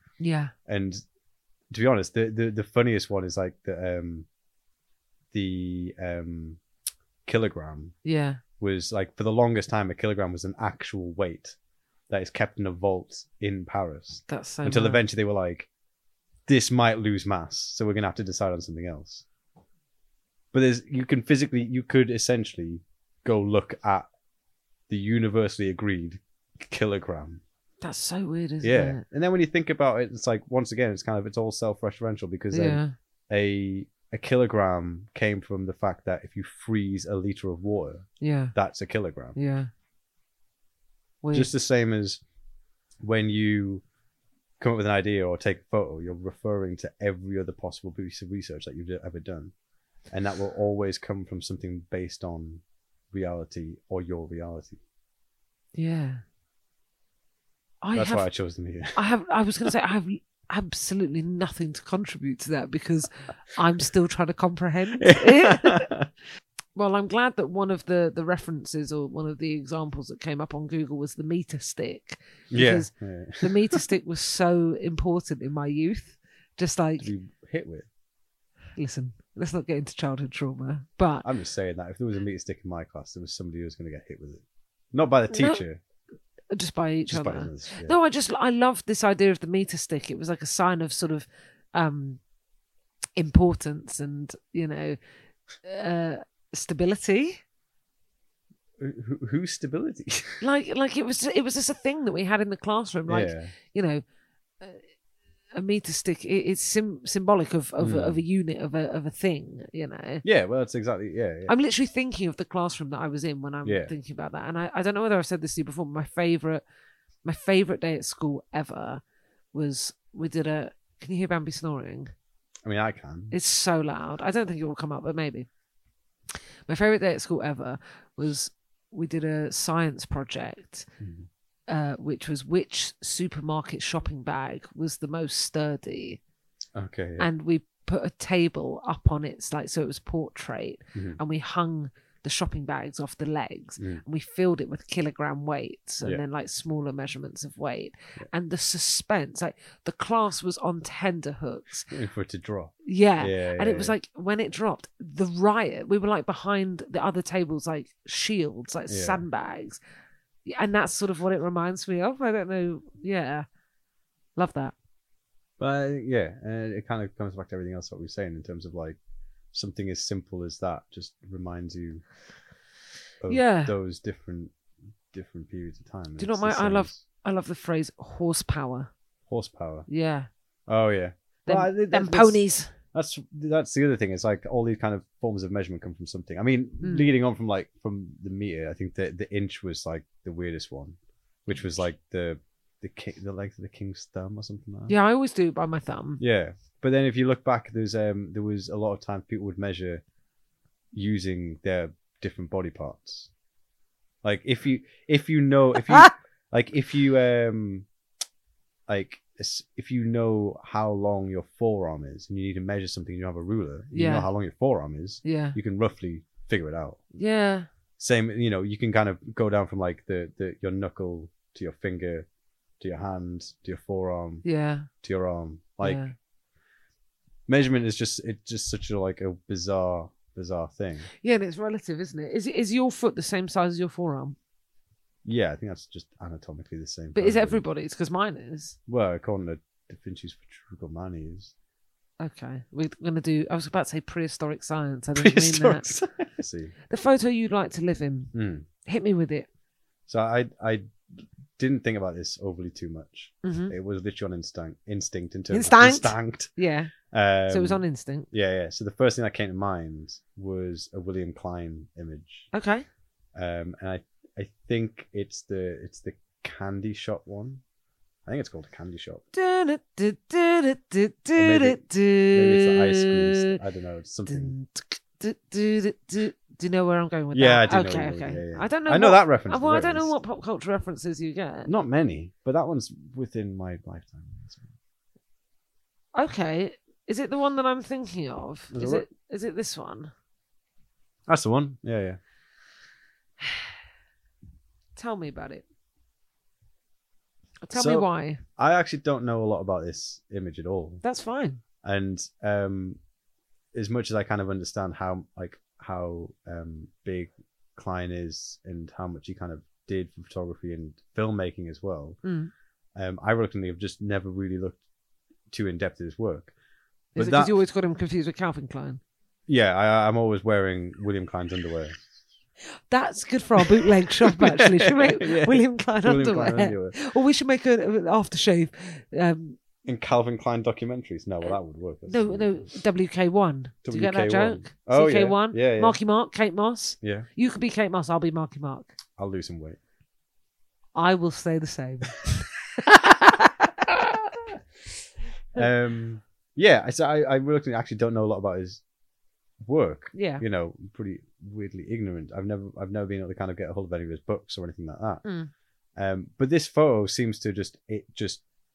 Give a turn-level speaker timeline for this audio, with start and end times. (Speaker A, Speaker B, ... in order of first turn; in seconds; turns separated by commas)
Speaker A: 0.2-0.5, Speaker B: 0.7-1.0, Speaker B: 1.7-4.3, Speaker B: 5.3-6.6, Speaker B: 7.3-8.0, Speaker A: 8.1-8.4, Speaker B: 8.6-11.6, Speaker B: 12.1-15.7, Speaker A: 14.3-15.0, Speaker B: 16.5-19.2, Speaker B: 20.5-24.1, Speaker B: 24.9-27.4, Speaker A: 27.8-29.0, Speaker B: 28.6-39.4, Speaker A: 32.5-32.9, Speaker A: 38.2-38.5, Speaker A: 39.4-39.7, Speaker A: 41.2-41.5, Speaker B: 41.3-42.2, Speaker B: 43.0-43.8, Speaker B: 44.6-49.5, Speaker B: 50.1-54.8, Speaker A: 55.8-56.2, Speaker A: 57.8-58.3, Speaker B: 57.9-59.0, Speaker A: 59.0-65.9, Speaker B: 65.0-66.1, Speaker A: 66.8-77.1, Speaker B: 72.5-73.8, Speaker B: 77.0-77.9, Speaker A: 78.8-81.3, Speaker B: 81.2-85.8, Speaker A: 85.3-85.6, Speaker A: 86.5-92.2, Speaker B: 87.1-88.0, Speaker A: 93.2-95.0, Speaker A: 95.6-97.4, Speaker B: 98.8-100.4, Speaker A: 100.4-104.0, Speaker B: 103.1-103.5, Speaker A: 104.6-104.8, Speaker A: 105.5-110.2, Speaker B: 107.8-108.2, Speaker B: 110.2-111.5, Speaker A: 111.5-116.6, Speaker B: 113.7-113.9, Speaker A: 117.2-119.0, Speaker A: 119.5-122.1, Speaker B: 122.7-123.3, Speaker A: 123.3-125.5, Speaker A: 126.7-130.9, Speaker B: 131.0-131.3, Speaker A: 131.7-136.2, Speaker B: 136.8-137.3, Speaker A: 137.2-151.9, Speaker B: 140.9-141.2, Speaker B: 151.9-153.9, Speaker A: 152.8-159.8, Speaker B: 158.9-159.2, Speaker A: 160.4-163.5, Speaker A: 164.4-164.8, Speaker B: 165.6-169.0, Speaker B: 169.5-172.0, Speaker B: 173.2-174.5, Speaker A: 173.3-173.8, Speaker B: 175.1-177.0, Speaker A: 176.2-178.9, Speaker B: 179.3-179.9, Speaker A: 179.9-180.3, Speaker B: 180.7-182.4, Speaker A: 181.5-182.7, Speaker B: 182.9-194.9, Speaker A: 186.8-187.1, Speaker A: 194.9-196.2, Speaker B: 196.2-200.0, Speaker B: 200.9-203.3, Speaker B: 204.2-207.9, Speaker A: 205.9-206.1, Speaker B: 208.9-217.0, Speaker A: 213.9-214.3, Speaker A: 215.2-215.6, Speaker A: 217.2-217.7, Speaker B: 218.0-222.3, Speaker B: 222.8-224.4, Speaker A: 224.4-224.9, Speaker B: 225.0-226.0, Speaker A: 225.8-226.2, Speaker B: 227.5-231.1, Speaker A: 231.2-234.4, Speaker B: 235.2-237.6, Speaker A: 237.2-238.8, Speaker B: 238.9-241.5, Speaker A: 242.2-245.9, Speaker B: 245.2-246.7, Speaker A: 246.9-248.3, Speaker B: 248.3-248.7, Speaker A: 248.8-249.5, Speaker B: 250.1-256.5, Speaker A: 253.4-253.7, Speaker A: 255.5-256.9, Speaker B: 257.0-262.5, Speaker A: 257.5-258.3, Speaker A: 262.5-262.9, Speaker B: 263.4-267.6, Speaker B: 268.3-269.2, Speaker A: 269.3-273.6, Speaker B: 271.4-274.6, Speaker A: 274.3-281.7, Speaker B: 277.3-280.1, Speaker B: 281.7-284.7, Speaker A: 286.1-290.1, Speaker B: 288.7-289.1, Speaker B: 291.3-292.2, Speaker A: 295.0-295.6, Speaker A: 297.6-298.4, Speaker B: 297.7-301.0, Speaker A: 301.0-301.6, Speaker B: 301.8-303.0, Speaker B: 303.7-312.2, Speaker A: 312.2-312.5, Speaker B: 313.0-314.8, Speaker B: 315.5-316.5, Speaker A: 317.1-319.0, Speaker B: 317.2-317.6, Speaker B: 319.5-322.0, Speaker A: 322.9-329.6, Speaker B: 323.6-327.0, Speaker B: 329.9-332.7, Speaker A: 332.1-338.9, Speaker B: 333.9-336.0, Speaker B: 337.0-337.3, Speaker B: 339.2-339.8, Speaker A: 340.9-343.7, Speaker B: 345.5-348.8, Speaker B: 349.6-355.2, Speaker A: 350.1-350.4, Speaker A: 355.2-355.5, Speaker B: 356.0-358.4